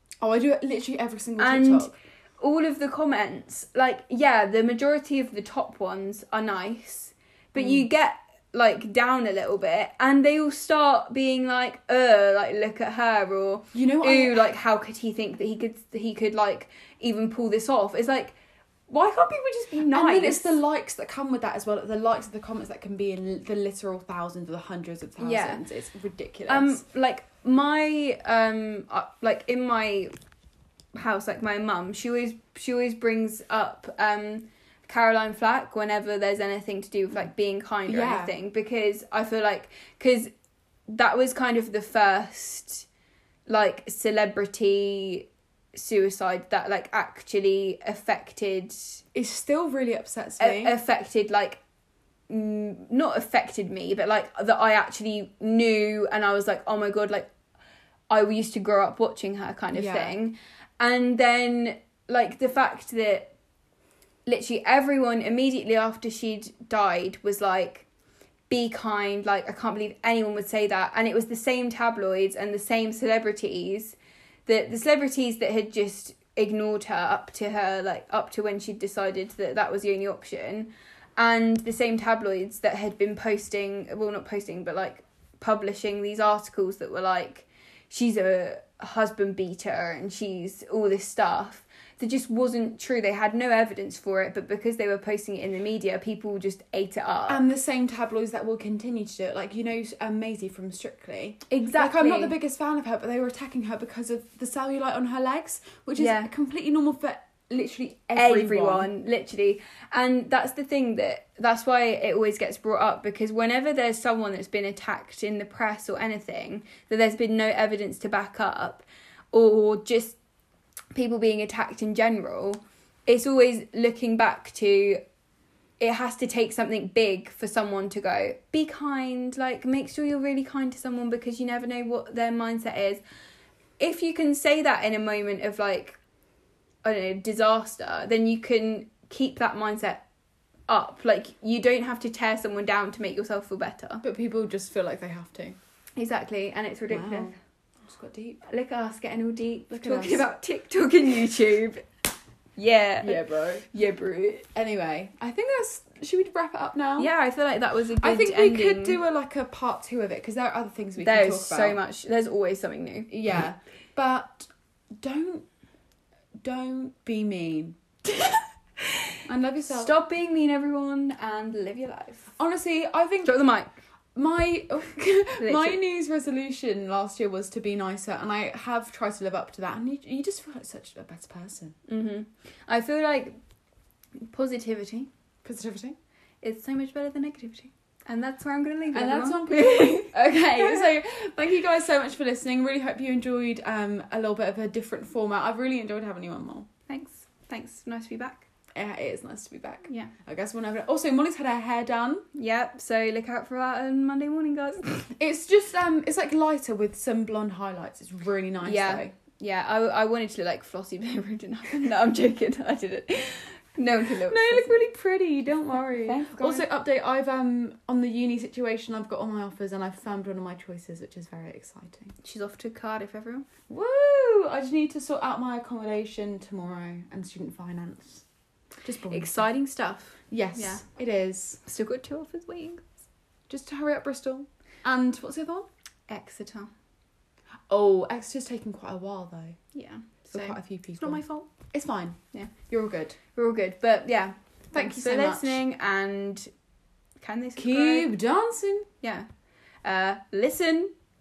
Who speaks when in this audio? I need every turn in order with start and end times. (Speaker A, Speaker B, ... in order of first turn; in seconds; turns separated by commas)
Speaker A: 0.2-2.0, Speaker B: 1.4-18.4, Speaker A: 7.6-7.9, Speaker A: 13.7-14.5, Speaker B: 18.9-20.6, Speaker A: 19.9-26.8, Speaker B: 25.2-25.6, Speaker B: 26.5-30.1, Speaker B: 30.9-40.3, Speaker A: 37.9-38.3, Speaker B: 40.9-42.9, Speaker B: 43.5-49.0, Speaker A: 49.1-50.8, Speaker B: 50.4-51.6, Speaker B: 52.3-57.3, Speaker B: 58.1-63.3, Speaker A: 59.7-60.2, Speaker B: 64.3-67.9, Speaker B: 68.5-97.4, Speaker A: 97.3-108.9, Speaker B: 101.5-102.4, Speaker B: 106.0-106.3, Speaker B: 108.2-120.2, Speaker B: 120.9-125.0, Speaker B: 125.8-133.0, Speaker B: 133.8-136.0, Speaker B: 136.8-140.1, Speaker B: 140.7-144.0, Speaker A: 144.0-145.6, Speaker B: 146.0-147.4, Speaker A: 146.9-148.4, Speaker B: 148.4-151.8, Speaker A: 149.7-150.3, Speaker B: 152.6-154.5, Speaker A: 153.0-153.7, Speaker A: 154.6-157.1, Speaker B: 157.0-159.0, Speaker A: 158.0-161.8, Speaker B: 161.0-163.1, Speaker A: 163.1-165.5, Speaker A: 166.4-167.8, Speaker B: 168.1-172.3, Speaker A: 169.3-169.9, Speaker A: 172.4-173.4, Speaker B: 173.2-173.7, Speaker A: 174.2-181.8, Speaker B: 175.4-175.8, Speaker B: 181.9-183.4, Speaker B: 184.2-185.1, Speaker A: 185.4-186.0, Speaker B: 186.4-190.8, Speaker A: 188.9-196.7, Speaker B: 196.9-198.5, Speaker A: 198.8-202.2, Speaker B: 202.3-205.1, Speaker A: 205.2-209.1, Speaker B: 208.6-214.7, Speaker A: 214.2-222.1, Speaker B: 215.7-216.7, Speaker B: 222.2-223.5, Speaker A: 223.7-228.2, Speaker A: 228.8-229.5, Speaker B: 229.1-230.8, Speaker A: 230.3-231.6, Speaker B: 231.7-233.0, Speaker A: 233.5-235.7, Speaker B: 236.1-236.7, Speaker A: 237.7-239.6, Speaker B: 239.7-241.5, Speaker A: 240.3-243.2, Speaker B: 243.3-246.5, Speaker A: 244.7-245.6, Speaker B: 247.2-248.1, Speaker A: 247.6-248.9, Speaker B: 249.0-249.3, Speaker B: 249.8-250.9